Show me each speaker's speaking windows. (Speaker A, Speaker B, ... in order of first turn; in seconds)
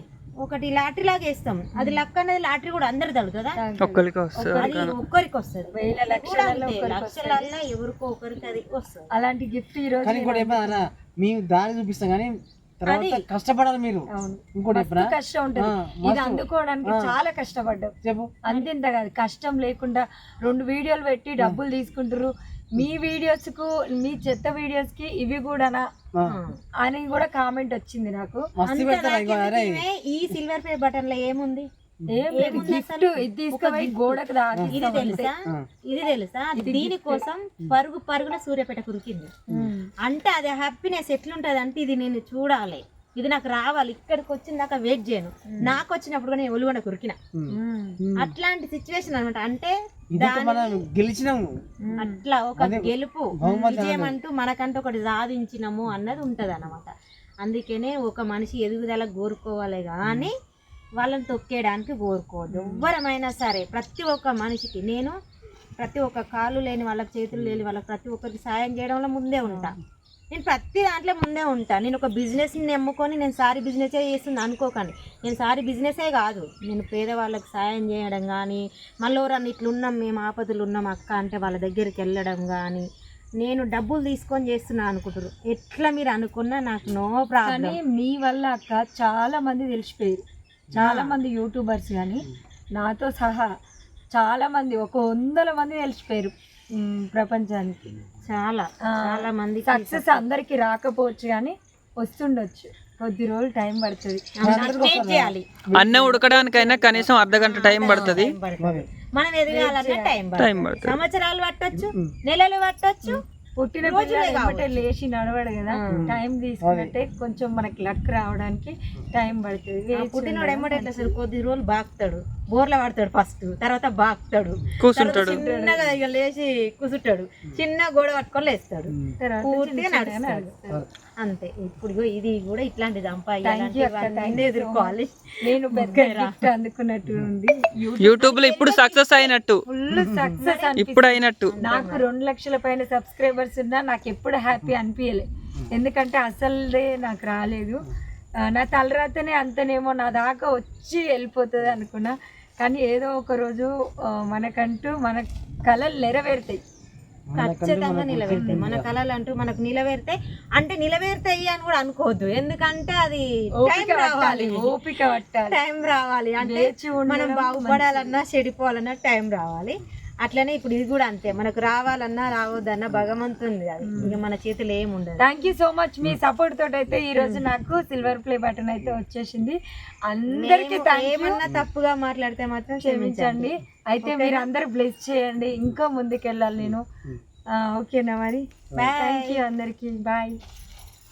Speaker A: 0.4-3.6, 4.5-9.1, 12.9-13.2, 26.2-26.6, 28.6-31.7, 32.3-39.3, 40.0-47.2, 48.1-50.9, 52.0-60.3, 61.0-65.1, 65.8-69.8, 70.3-82.9, 83.4-87.8, 90.8-91.2, 98.2-100.2, 104.4-113.2, 113.8-114.8, 115.7-116.2, 119.9-136.3, 138.2-139.3, 140.4-140.8, 141.5-142.0, 157.4-164.8, 165.5-175.2, 177.1-177.4, 180.3-183.5, 184.0-184.5, 188.7-189.4
Speaker B: 1.8-2.0, 3.6-4.9, 5.7-7.5, 9.1-10.9, 14.1-25.9, 26.8-28.5, 32.1-35.3, 36.6-37.2, 39.5-39.9, 45.5-45.8, 47.5-48.0, 51.9-52.2, 53.4-53.8, 62.5-62.9, 69.4-69.7, 87.4-90.2, 90.7-92.2, 92.8-93.5, 94.1-98.0, 98.8-104.9, 109.5-110.1, 113.0-121.1, 125.1-125.8, 129.2-130.5, 133.4-138.5, 139.7-147.8, 148.4-156.6, 158.3-158.6, 163.6-165.6, 166.4-167.9, 173.8-174.2, 175.2-181.4, 182.8-186.8, 187.5-188.4, 188.9-190.4
Speaker C: 3.8-5.0, 105.7-108.3, 110.4-111.0, 124.8-125.4, 138.0-139.6, 140.8-141.6
Speaker D: 10.0-17.1, 18.0-18.3, 28.6-29.8, 32.0-32.7, 34.5-35.7, 47.3-48.3, 50.1-51.6, 52.6-54.2, 60.0-60.3, 67.3-67.6, 104.4-106.0, 108.6-108.8, 111.7-112.1, 115.9-116.9, 128.9-129.2, 139.9-140.4, 157.3-158.9, 186.6-187.2